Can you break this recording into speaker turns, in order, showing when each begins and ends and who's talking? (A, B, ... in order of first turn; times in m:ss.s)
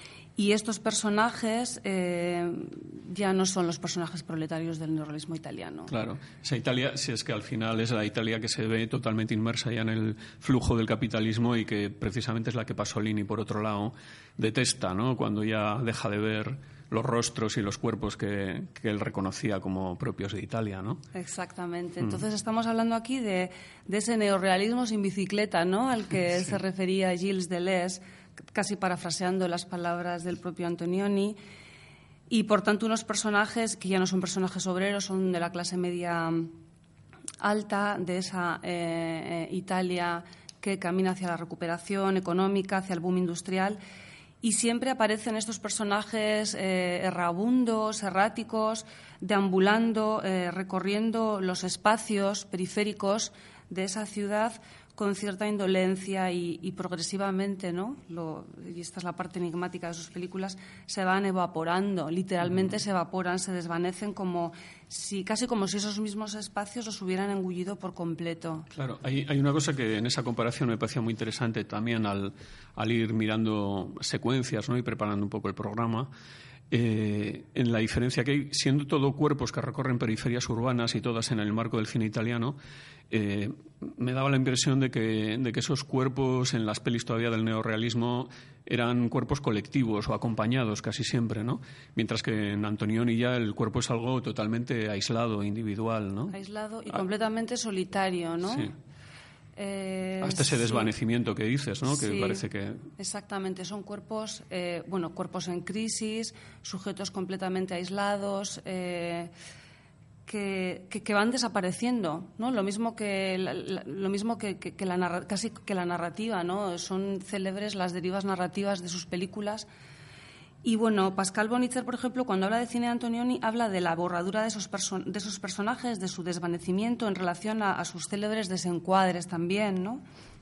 0:00.4-0:05.9 A
0:05.9-0:21.0 B
0:21.1-0:28.0 A
0:28.5-0:31.4 A
0:32.3-0:36.5 A
0:37.4-0:43.8 A
0:44.4-1:08.7 A
1:02.4-1:02.7 B
1:08.7-1:16.1 B
1:16.7-1:22.6 B
1:23.1-1:36.3 B
1:36.3-1:38.7 A
1:39.6-1:40.9 A
1:40.2-1:42.9 B
1:41.8-1:42.4 A
1:43.0-1:49.3 A
1:50.3-1:59.7 A
2:00.6-2:10.0 A